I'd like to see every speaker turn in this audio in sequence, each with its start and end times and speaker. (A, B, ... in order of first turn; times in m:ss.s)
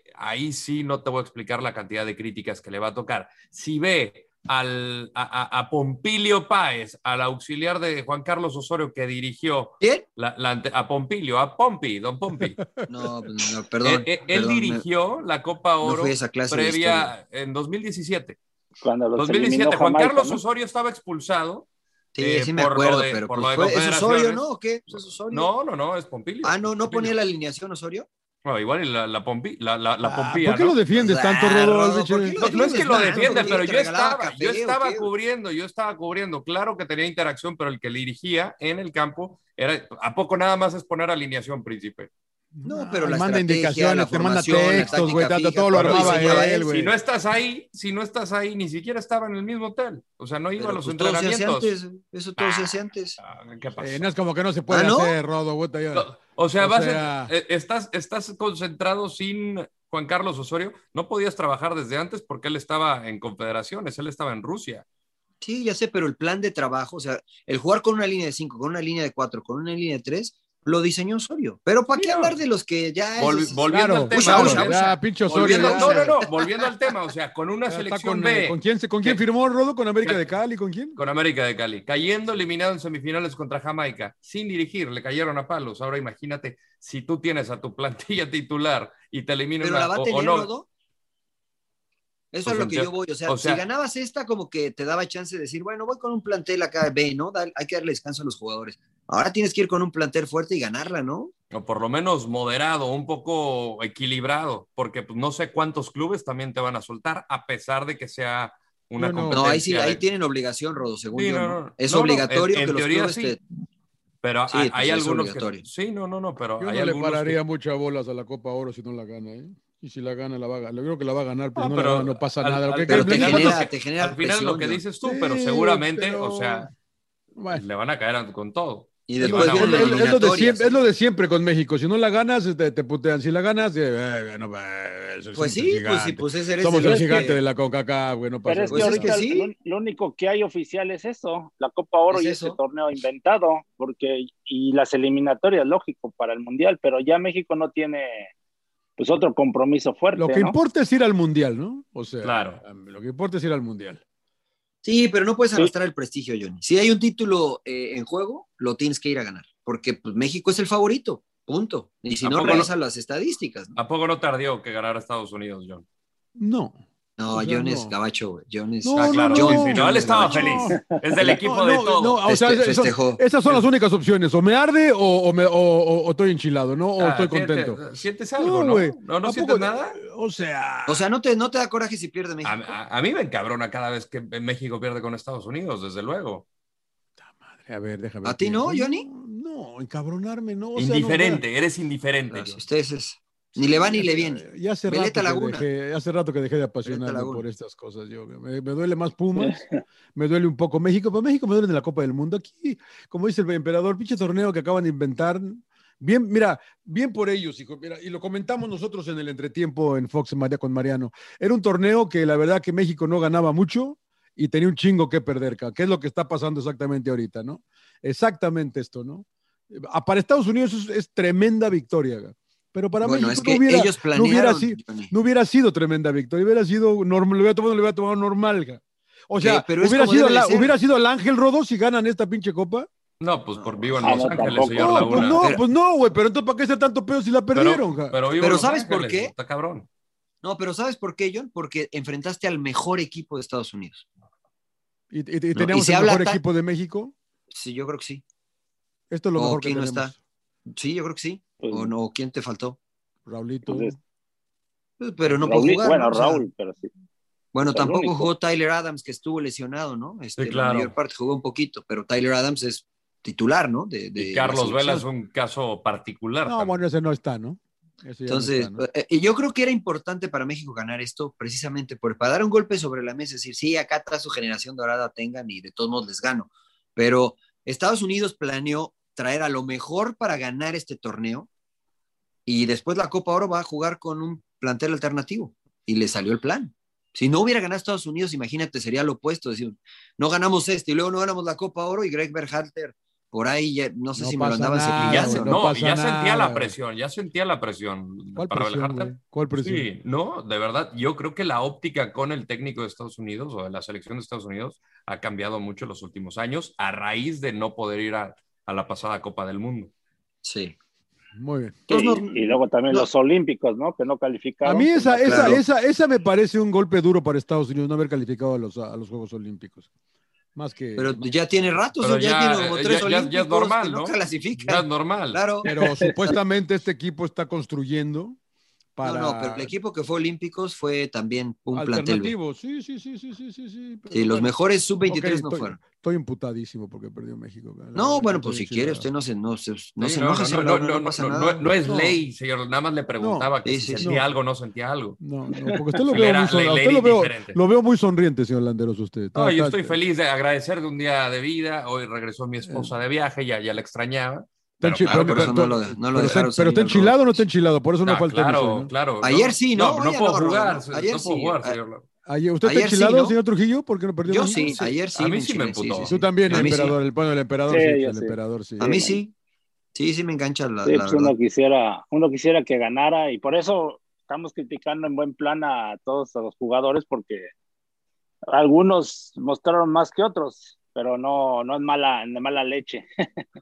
0:00.1-0:12.6 A
0:12.4-0:13.1 B
0:12.9-0:14.8 C
0:13.8-0:18.4 A
0:15.8-0:17.1 C
0:18.8-0:20.4 D
0:19.2-0:21.7 A
0:22.2-0:25.5 C
0:22.2-0:27.1 A
0:26.4-0:28.1 C
0:28.4-0:30.8 A
0:30.0-0:33.6 B
0:31.0-0:35.1 C
0:32.4-0:42.1 A
0:42.5-0:46.9 B
0:42.6-0:46.6 C
0:44.7-0:51.7 A
0:50.6-0:53.2 C
0:52.4-0:54.0 A
0:53.8-0:56.1 B
0:54.7-0:55.2 C
0:55.9-1:04.8 A
0:56.6-0:57.3 B
1:05.4-1:16.7 C
1:11.9-1:12.4 A
1:13.2-1:19.2 A
1:13.7-1:16.1 B
1:17.7-1:21.0 B
1:20.0-1:20.3 A
1:21.0-1:30.5 A
1:29.6-1:30.7 C
1:32.3-1:41.3 C
1:32.4-1:33.6 A
1:41.5-1:50.0 A
1:49.0-1:49.4 B
1:49.3-1:53.4 C
1:51.1-1:53.4 A
1:54.2-1:57.4 A
1:54.5-1:55.6 C
1:56.6-2:03.6 B
2:01.6-2:06.7 A
2:02.9-2:04.8 C
2:05.0-2:06.7 B
2:07.4-2:07.6 B
2:07.5-2:10.2 A
2:09.1-2:10.7 C
2:09.2-2:19.2 B
2:15.3-2:17.4 C
2:16.8-2:17.2 D
2:18.4-2:28.3 D
2:18.7-2:19.5 C
2:22.1-2:22.6 C
2:29.0-2:30.6 D
2:30.2-2:34.0 B
2:32.2-2:32.6 A
2:34.8-2:43.8 C
2:42.2-2:42.7 A
2:43.8-2:45.8 A
2:46.4-2:46.8 B
2:47.2-2:50.7 C
2:47.3-2:48.0 B
2:48.8-2:57.8 B
2:49.0-2:52.2 A
2:52.3-2:53.2 C
2:57.0-3:00.0 A
2:58.4-3:01.0 B
3:00.9-3:02.7 C
3:02.4-3:06.4 A
3:07.2-3:11.4 B
3:08.2-3:09.0 C
3:10.8-3:12.6 A
3:12.3-3:15.6 C
3:13.6-3:19.6 B
3:16.8-3:17.4 C
3:19.4-3:19.8 D
3:20.1-3:52.9 B
3:43.0-3:45.1 C
3:49.4-3:50.7 C
3:53.2-3:55.5 A
3:53.6-3:55.6 C
3:54.0-3:55.1 D
3:54.7-3:58.2 B
3:57.5-3:59.9 A
3:58.4-3:59.3 C
4:00.4-4:04.0 C
4:05.1-4:07.1 B
4:05.6-4:06.4 C
4:07.5-4:08.2 C
4:09.1-4:10.2 B
4:09.4-4:10.1 C
4:10.7-4:12.8 C
4:11.6-4:11.9 D
4:13.3-4:14.0 B
4:13.7-4:14.0 D
4:15.0-4:16.4 C
4:15.4-4:16.9 D
4:17.5-4:25.0 C
4:17.7-4:18.3 D
4:20.4-4:20.9 A
4:24.2-4:26.7 A
4:26.4-4:28.8 B
4:28.3-4:41.5 C
4:42.4-4:55.6 C
4:54.1-4:56.7 B
4:55.0-5:09.9 A
4:58.3-4:59.9 B
5:10.4-5:10.7 C
5:11.3-5:11.9 B
5:11.9-5:13.1 C
5:11.9-5:15.6 D
5:14.6-5:19.9 B
5:15.2-5:15.6 C
5:20.6-5:21.3 B
5:21.0-5:25.7 C
5:22.0-5:25.4 A
5:25.6-5:28.4 B
5:25.7-5:26.1 D
5:29.0-5:29.7 B
5:29.0-5:32.3 C
5:31.7-5:34.5 B
5:34.1-5:35.8 C
5:35.1-5:39.0 B
5:38.0-5:41.7 C
5:40.0-5:45.2 A
5:41.8-5:42.2 B
5:43.2-5:44.2 B
5:43.6-5:44.1 C
5:45.2-5:50.0 B
5:46.1-5:47.6 A
5:49.3-5:56.4 A
5:52.7-5:52.9 B
5:54.8-5:58.9 B
5:55.0-5:57.4 C
5:58.0-6:02.0 A
5:59.2-6:01.8 C
6:02.3-6:04.8 B
6:02.6-6:03.4 C
6:04.2-6:07.0 C
6:04.6-6:06.8 A
6:06.0-6:09.1 B
6:07.7-6:09.1 D
6:08.8-6:09.3 C
6:10.0-6:11.3 C
6:10.8-6:17.5 D
6:18.5-6:23.4 D